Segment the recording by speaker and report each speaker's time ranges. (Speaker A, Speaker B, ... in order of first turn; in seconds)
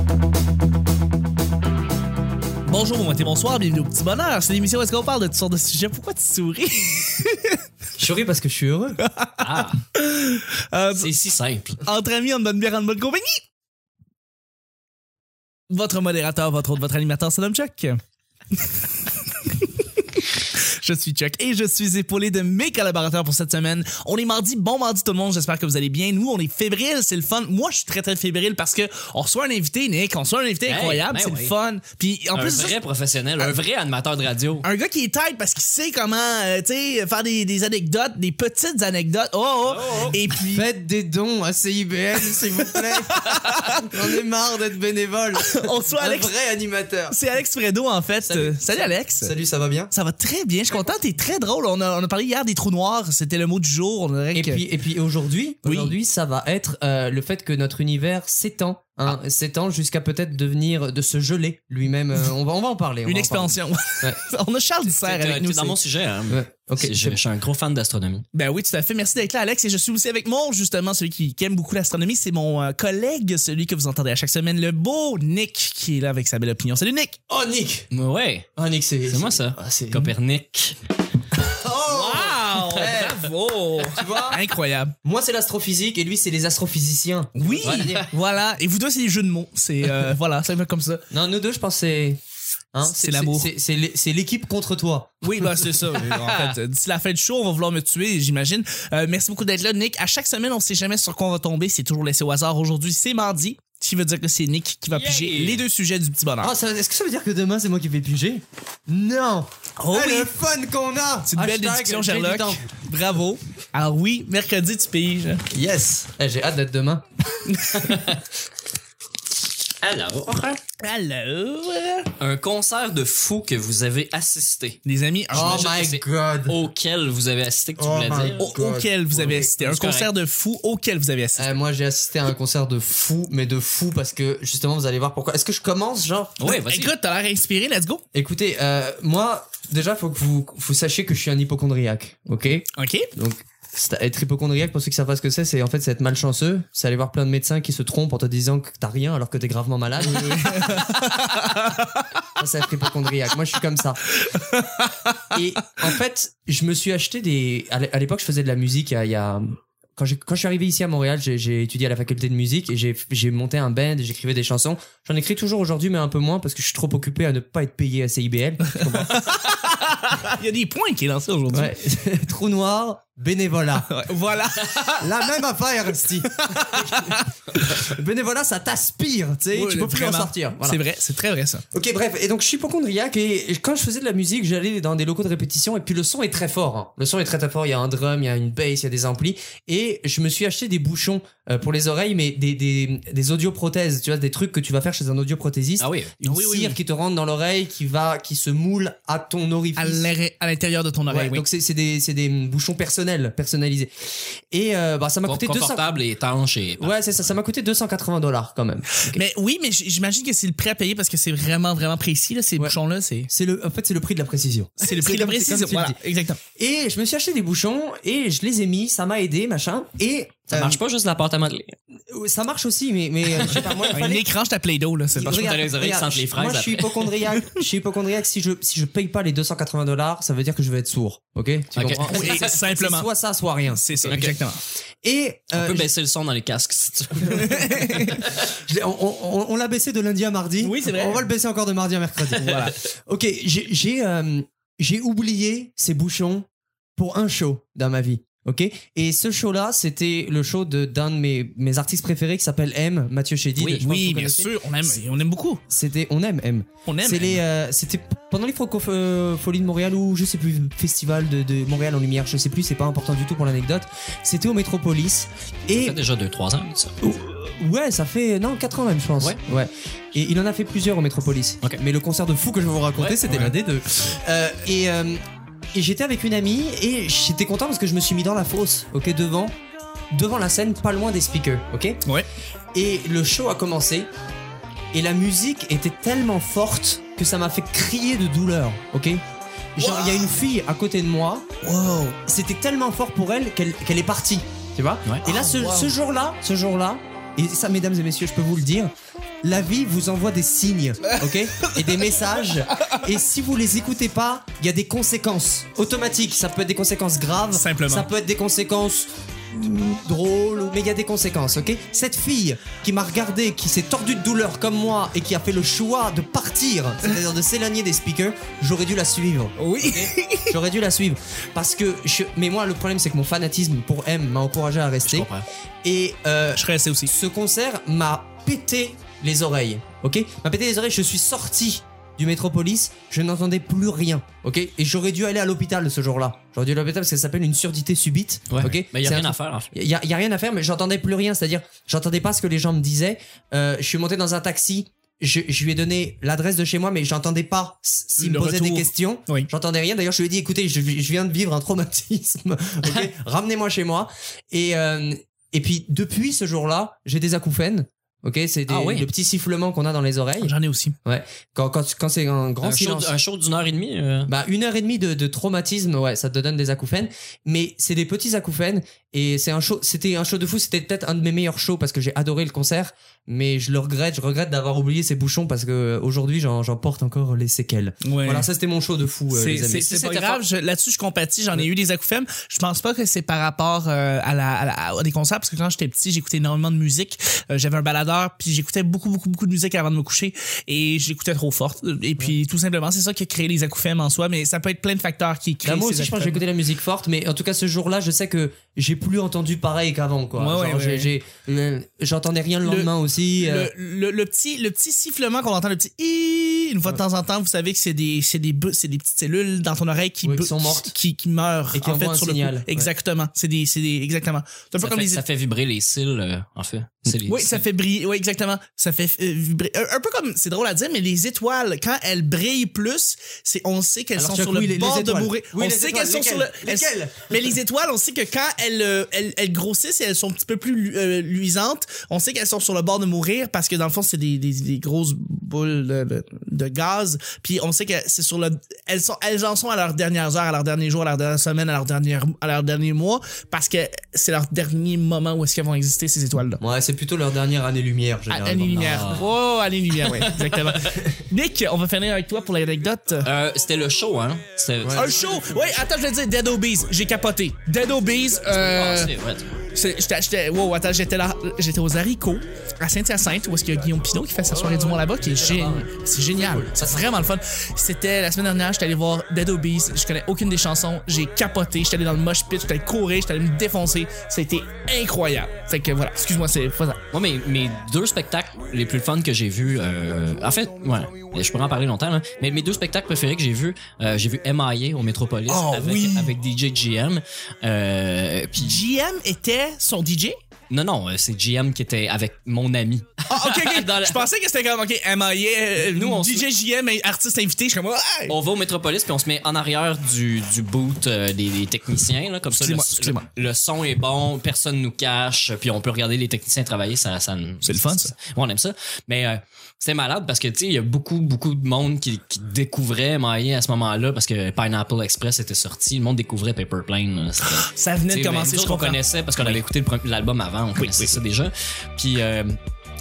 Speaker A: 2.7-7.6, 9.0-11.1, 11.8-13.4, 15.7-18.0, 18.6-32.7, 34.6-40.7, 42.6-43.9, 45.4-46.3, 47.1-49.3, 49.9-54.6, 55.6-55.9, 63.0-65.8, 68.3-77.2, 81.9-84.9, 87.3-91.0, 92.8-93.5, 95.2-106.5, 109.8-110.3, 111.2-115.4, 117.5-118.0, 120.8-122.1, 124.8-125.7, 128.4-131.6, 136.4-138.0, 142.8-143.1, 150.0-152.1, 154.2-155.2, 168.8-171.7, 173.9-175.3, 176.3-177.7, 179.5-181.6, 196.2-196.8, 199.8-201.4, 209.0-213.3, 214.8-216.4, 223.9-225.5, 231.9-233.1, 233.7-234.6, 237.3-238.2, 240.6-241.2, 242.3-242.8, 253.8-255.6, 256.9-257.4, 273.3-273.5, 289.8-290.2, 291.6-292.2, 295.2-295.9, 307.5-308.1, 319.6-320.5, 326.6-327.1, 348.2-349.5, 360.4-360.9, 378.0-378.5, 379.3-396.4, 400.4-401.1, 402.6-415.2, 417.3-446.6, 448.3-453.3, 454.9-459.1, 459.7-477.0, 485.5-486.3, 488.6-490.4, 493.3-498.3, 502.5-503.3, 507.6-508.1, 517.4-519.6, 520.8-521.2
Speaker B: 8.0-9.0, 40.5-47.2, 48.2-49.9, 54.3-64.2, 66.3-67.2, 77.3-77.9, 78.6-80.1, 81.5-83.2, 83.8-84.4, 85.0-88.1, 91.1-92.2, 92.7-95.4, 106.4-112.7, 115.5-117.0, 125.3-126.6, 127.8-129.5, 131.4-136.4, 138.1-150.8, 152.4-154.0, 155.3-169.2, 171.5-173.9, 175.0-180.8, 181.7-200.1, 201.1-205.9, 206.8-209.2, 213.3-216.0, 216.6-220.8, 222.1-224.2, 225.2-234.2, 235.0-235.9, 238.4-254.5, 255.7-266.0, 267.0-275.2, 275.7-279.5, 280.1-282.0, 282.7-284.1, 284.9-289.2, 289.8-291.4, 292.2-298.9, 299.4-325.3, 325.8-360.5, 361.0-363.1, 364.3-380.4, 395.6-403.7, 410.2-410.9, 411.7-412.9, 424.2-427.5, 446.6-449.1, 454.8-455.1, 464.5-467.3
Speaker C: 9.4-9.8, 10.9-11.8, 30.7-31.5, 32.3-34.7, 39.6-40.2, 64.9-68.2, 77.9-78.5, 79.1-80.8, 87.6-88.1, 96.0-96.5, 104.9-105.6, 117.7-118.2, 119.8-120.6, 122.2-124.8, 125.3-128.5, 129.5-130.1, 136.4-136.9, 195.8-196.1, 205.2-206.9, 220.5-221.8, 223.4-223.9, 225.2-227.1, 231.8-232.4, 234.1-234.3, 235.5-238.4, 253.6-253.8, 265.8-266.9, 325.1-325.4, 338.5-339.7, 358.7-359.1, 362.6-364.3, 379.8-380.3, 414.8-417.6, 448.7-449.3, 450.0-451.0, 453.2-455.4, 458.5-459.6, 477.1-488.8, 490.7-494.3, 495.8-496.4, 498.3-522.6